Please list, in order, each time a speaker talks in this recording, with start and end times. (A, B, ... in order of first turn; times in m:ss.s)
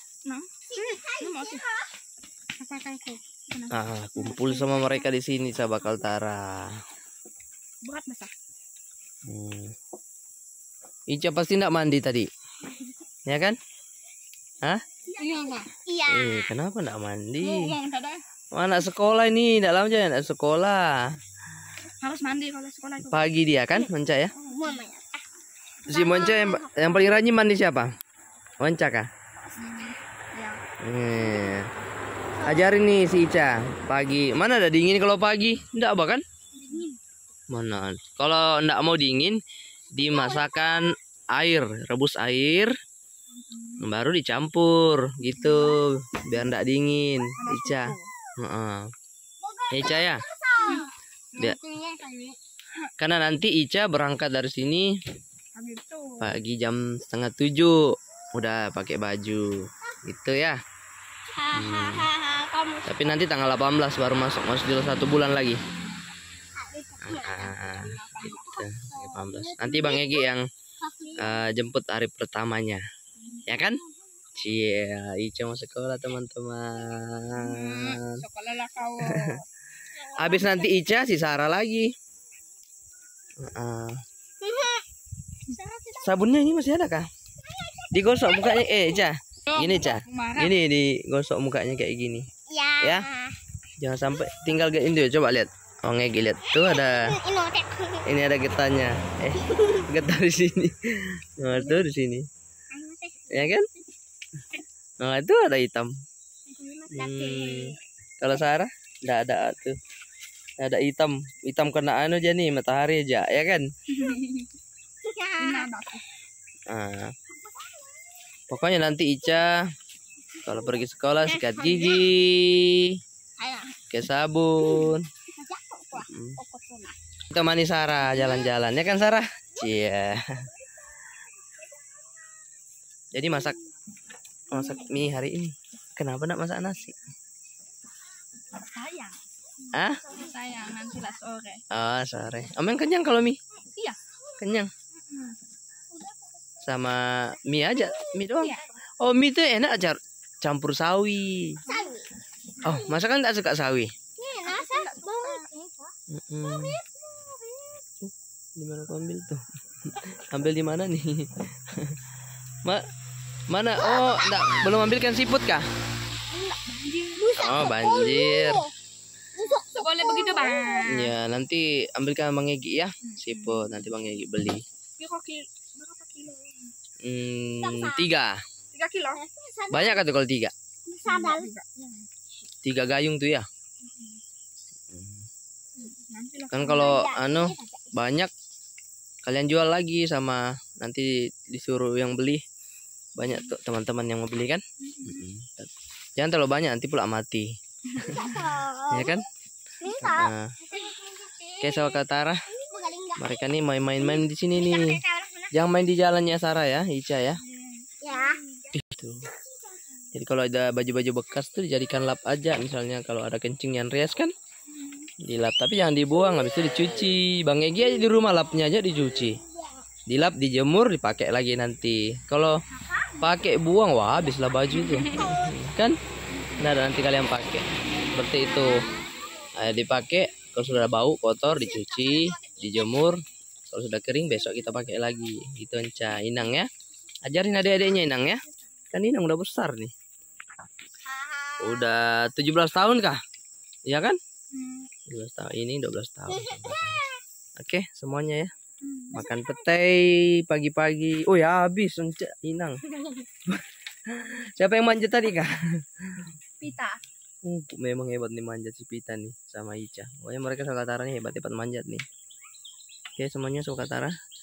0:00.3-0:01.7 A
0:00.8-0:01.8 B
0:02.6-0:05.0 A
0:03.7-0:06.7 C
0:07.8-0:08.3 A
0:09.3-0:09.7 C
0:11.1-0:12.3 C
0:13.3-0:13.6 C
0:15.2-0:15.7 A
0:15.2-0:16.5 B
0:16.0-0:17.7 C
0:17.4-0:18.2 A
0:18.5-0:21.0 C
0:22.0-0:23.3 A
0:23.1-0:24.3 C
0:24.4-0:25.2 B
0:25.9-0:26.9 B
0:25.9-0:27.9 C
0:28.6-0:29.1 C
0:29.6-0:30.6 A
0:30.8-0:31.7 C
0:32.4-0:36.2 C
0:36.6-0:37.0 A
0:37.5-0:39.4 C
0:39.9-0:42.7 C
0:43.3-0:43.9 A
0:43.8-0:48.8 C
0:45.2-0:45.8 A
0:47.4-0:48.1 A
0:49.4-0:50.9 B
0:49.7-0:50.2 C
0:50.6-0:52.9 A
0:53.0-0:54.9 C
0:55.6-0:56.3 A
0:56.2-0:57.8 C
0:58.3-1:00.6 C
1:01.4-1:02.8 B
1:01.5-1:02.1 C
1:02.8-1:05.6 C
1:05.7-1:06.1 A
1:06.6-1:07.6 B
1:07.0-1:10.4 C
1:07.6-1:08.7 A
1:08.8-1:10.2 B
1:10.8-1:11.3 B
1:11.1-1:12.8 C
1:13.2-1:13.5 A
1:13.4-1:13.8 C
1:14.4-1:18.2 C
1:17.3-1:19.4 A
1:19.0-1:19.3 C
1:20.1-1:21.9 C
1:20.1-1:20.8 B
1:23.4-1:24.0 C
1:24.4-1:24.8 B
1:25.5-1:26.1 B
1:26.0-1:27.1 C
1:27.5-1:28.9 B
1:27.9-1:32.3 C
1:29.5-1:30.5 A
1:32.5-1:33.4 B
1:32.8-1:33.1 C
1:33.8-1:37.2 C
1:36.6-1:38.0 B
1:38.0-1:42.2 C
1:42.7-1:43.6 B
1:43.3-1:43.7 C
1:45.0-1:45.9 C
1:46.5-1:47.8 B
1:46.9-1:49.8 C
1:50.6-1:53.6 C
1:53.9-1:54.5 A
1:55.0-1:55.6 B
1:55.4-1:56.0 A
1:56.7-1:57.1 C
1:58.5-1:59.5 C
2:00.4-2:03.0 C
2:01.4-2:02.1 B
2:03.4-2:03.8 B
2:03.9-2:05.0 C
2:04.8-2:07.0 B
2:06.0-2:06.4 C
2:07.3-2:10.5 C
2:13.1-2:13.6 C
2:14.5-2:16.9 C
2:14.5-2:14.9 A
2:18.6-2:19.2 A
2:19.7-2:20.0 C
2:20.1-2:21.6 A
2:21.7-2:23.4 C
2:24.4-2:24.7 C
2:25.0-2:25.4 A
2:26.6-2:31.6 C
2:31.7-2:32.0 B
2:32.6-2:33.9 C
2:34.2-2:35.9 B
2:34.4-2:35.5 A
2:36.1-2:36.8 C
2:36.5-2:37.8 B
2:38.0-2:42.0 C
2:43.5-2:45.6 C
2:46.3-2:47.4 A
2:47.2-2:48.7 B
2:47.3-2:48.7 C
2:49.4-2:50.9 B
2:49.4-2:51.1 A
2:50.9-2:54.6 C
2:53.0-2:53.8 A
2:55.0-2:56.7 A
2:57.0-2:58.3 C
2:57.6-2:58.0 B
2:58.7-2:59.2 A
2:59.2-3:00.0 B
2:59.7-3:00.5 C
3:00.9-3:01.5 B
3:01.0-3:02.1 A
3:02.6-3:03.4 C
3:03.8-3:04.2 A
3:04.9-3:05.2 C
3:05.8-3:07.1 A
3:06.5-3:08.3 C
3:06.9-3:07.9 B
3:09.2-3:12.4 C
3:13.2-3:17.5 C
3:13.2-3:13.5 A
3:14.8-3:15.2 A
3:17.9-3:18.6 A
3:18.0-3:19.3 C
3:18.3-3:19.2 B
3:19.8-3:21.9 B
3:20.0-3:20.5 C
3:21.6-3:22.4 C
3:22.5-3:23.5 B
3:23.2-3:25.0 C
3:24.6-3:25.5 B
3:25.5-3:27.4 C
3:27.4-3:28.8 A
3:28.0-3:28.3 B
3:28.7-3:29.3 C
3:30.1-3:34.3 C
3:34.7-3:35.1 A
3:35.2-3:39.4 C
3:40.1-3:42.5 C
3:42.7-3:43.2 A
3:43.2-3:45.9 C
3:44.7-3:45.4 A
3:46.3-3:46.6 A
3:46.6-3:48.8 C
3:49.6-3:56.7 C
3:57.2-3:58.4 C
3:58.9-3:59.9 C
4:01.6-4:03.2 C
4:03.9-4:04.2 C
4:04.5-4:04.9 A
4:05.1-4:08.5 C
4:08.8-4:09.2 A
4:09.1-4:12.8 C
4:13.5-4:15.5 C
4:16.6-4:17.0 A
4:17.4-4:22.0 C
4:23.2-4:24.1 C